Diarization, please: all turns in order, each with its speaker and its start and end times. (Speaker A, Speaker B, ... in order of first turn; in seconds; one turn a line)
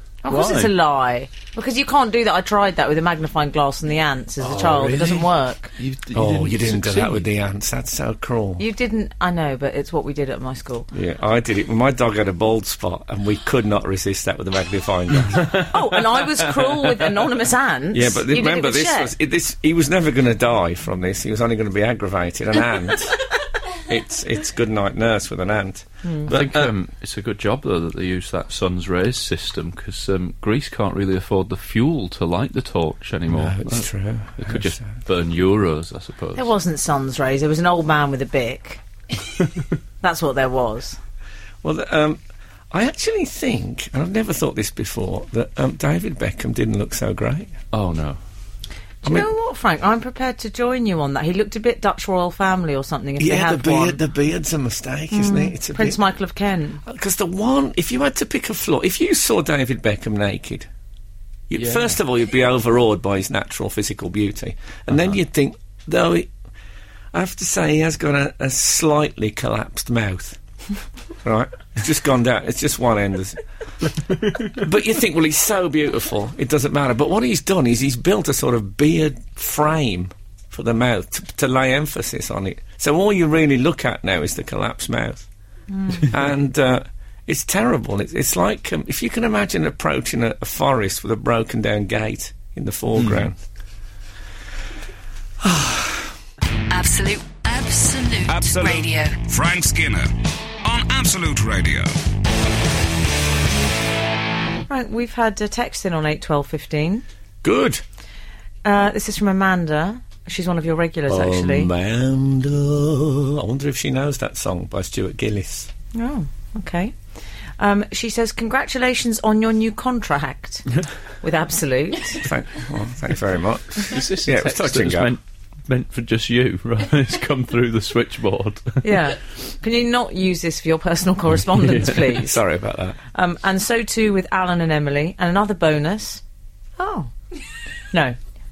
Speaker A: 0.2-5.7
Speaker B: 0.3-0.7
Speaker B: 4.4-7.3
Speaker C: 6.1-8.6
Speaker A: 8.6-10.9
Speaker C: 10.9-15.6
Speaker B: 15.3-15.8
Speaker A: 15.6-19.1
Speaker B: 16.3-16.7
Speaker C: 17.9-23.3
Speaker C: 23.8-26.7
Speaker A: 26.0-26.3
Speaker B: 26.3-36.5
Speaker C: 33.3-34.9
Speaker A: 36.3-38.8
Speaker A: 40.0-41.0
Speaker C: 41.6-42.2
Speaker C: 42.7-47.5
Speaker B: 47.7-48.2
Speaker A: 49.0-54.0
Speaker C: 53.2-56.0
Speaker A: 55.1-56.8
Speaker C: 56.8-60.7
Speaker C: 61.5-66.3
Speaker B: 61.5-61.9
Speaker C: 67.1-70.4
Speaker C: 71.2-73.4
Speaker C: 74.5-85.3
Speaker A: 85.7-86.1
Speaker C: 85.9-93.4
Speaker B: 93.0-93.3
Speaker C: 95.4-96.1
Speaker D: 96.7-99.2
Speaker E: 98.3-100.1
Speaker E: 100.6-101.9
Speaker A: 104.7-107.0
Speaker C: 107.4-107.8
Speaker A: 108.6-111.7
Speaker C: 111.1-115.7
Speaker A: 115.9-117.0
Speaker A: 117.6-120.7
Speaker A: 121.2-122.2
Speaker C: 122.2-125.1
Speaker B: 123.8-128.8
Speaker A: 128.8-132.4
Speaker C: 132.1-133.0
Speaker A: 133.1-136.2
Speaker A: 136.8-137.1
Speaker A: 137.9-138.2